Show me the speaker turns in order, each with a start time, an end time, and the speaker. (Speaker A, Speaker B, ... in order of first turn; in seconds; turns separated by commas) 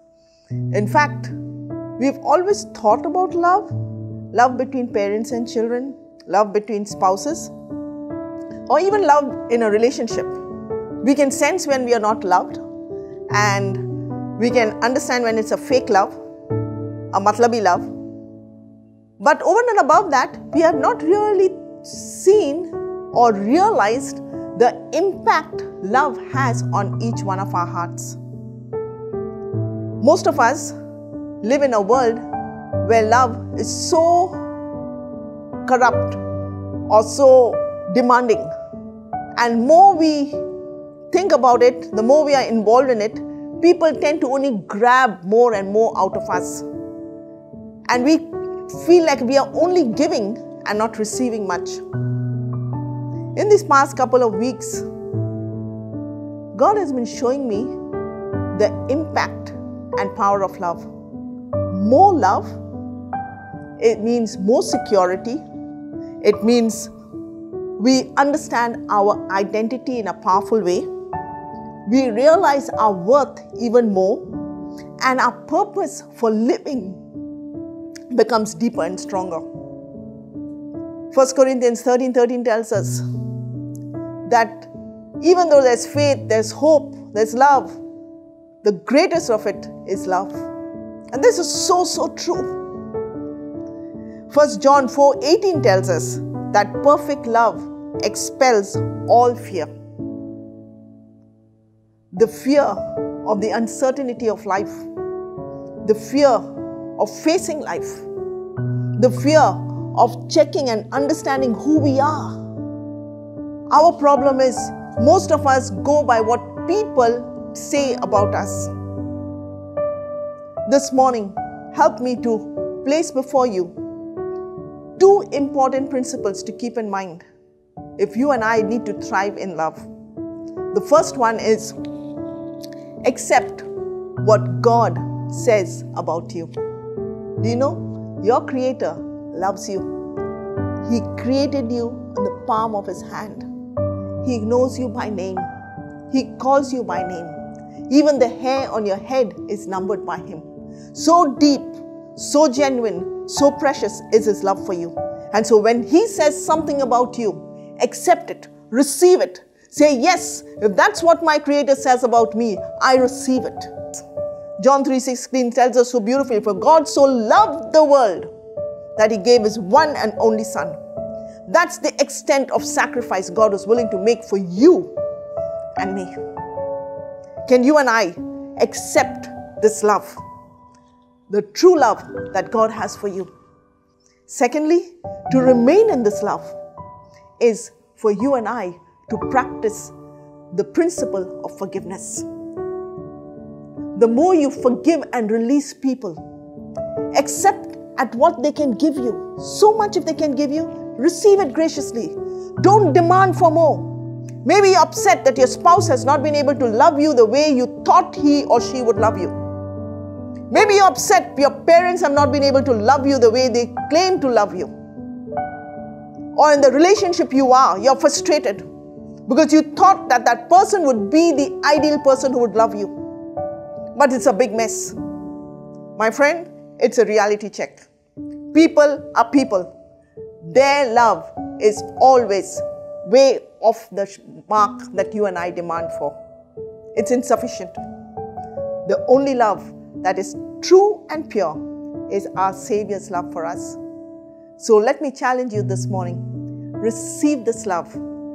Speaker A: 0.7-1.4, Speaker A: 2.0-3.7, Speaker A: 4.3-7.5, Speaker A: 8.7-10.4, Speaker A: 11.0-12.6, Speaker A: 13.3-16.1, Speaker A: 17.1-17.9, Speaker A: 19.2-28.2, Speaker A: 30.0-30.7, Speaker A: 31.4-32.2, Speaker A: 32.8-34.4, Speaker A: 35.6-36.2, Speaker A: 36.9-38.5, Speaker A: 39.4-40.4, Speaker A: 41.1-46.6, Speaker A: 47.9-51.8, Speaker A: 53.3-54.9, Speaker A: 56.5-57.7, Speaker A: 58.5-60.9, Speaker A: 61.7-62.6, Speaker A: 63.8-65.4, Speaker A: 66.2-66.9, Speaker A: 67.8-70.9, Speaker A: 71.8-74.3, Speaker A: 75.0-77.0, Speaker A: 78.1-79.5, Speaker A: 81.1-83.0, Speaker A: 84.2-87.8, Speaker A: 88.6-90.5, Speaker A: 91.1-92.5, Speaker A: 94.3-99.7, Speaker A: 102.1-104.9, Speaker A: 105.8-106.4, Speaker A: 107.0-108.1, Speaker A: 109.0-112.3, Speaker A: 113.7-118.7, Speaker A: 120.7-123.7, Speaker A: 125.0-127.2, Speaker A: 128.0-129.9, Speaker A: 130.7-131.8, Speaker A: 133.0-133.7, Speaker A: 134.2-136.5, Speaker A: 137.4-139.9, Speaker A: 140.8-143.4, Speaker A: 144.2-145.5, Speaker A: 146.1-163.7, Speaker A: 164.6-168.3, Speaker A: 168.9-170.8, Speaker A: 171.5-174.9, Speaker A: 175.8-176.1, Speaker A: 177.4-180.2, Speaker A: 181.3-183.3, Speaker A: 184.3-186.6, Speaker A: 187.4-189.9, Speaker A: 190.5-192.3, Speaker A: 193.9-196.2, Speaker A: 197.1-209.4, Speaker A: 210.5-214.7, Speaker A: 216.3-218.6, Speaker A: 219.3-222.9, Speaker A: 223.9-224.9, Speaker A: 225.9-227.9, Speaker A: 228.5-229.7, Speaker A: 230.4-236.2, Speaker A: 236.9-237.8, Speaker A: 238.8-243.8, Speaker A: 244.6-246.2, Speaker A: 246.8-248.0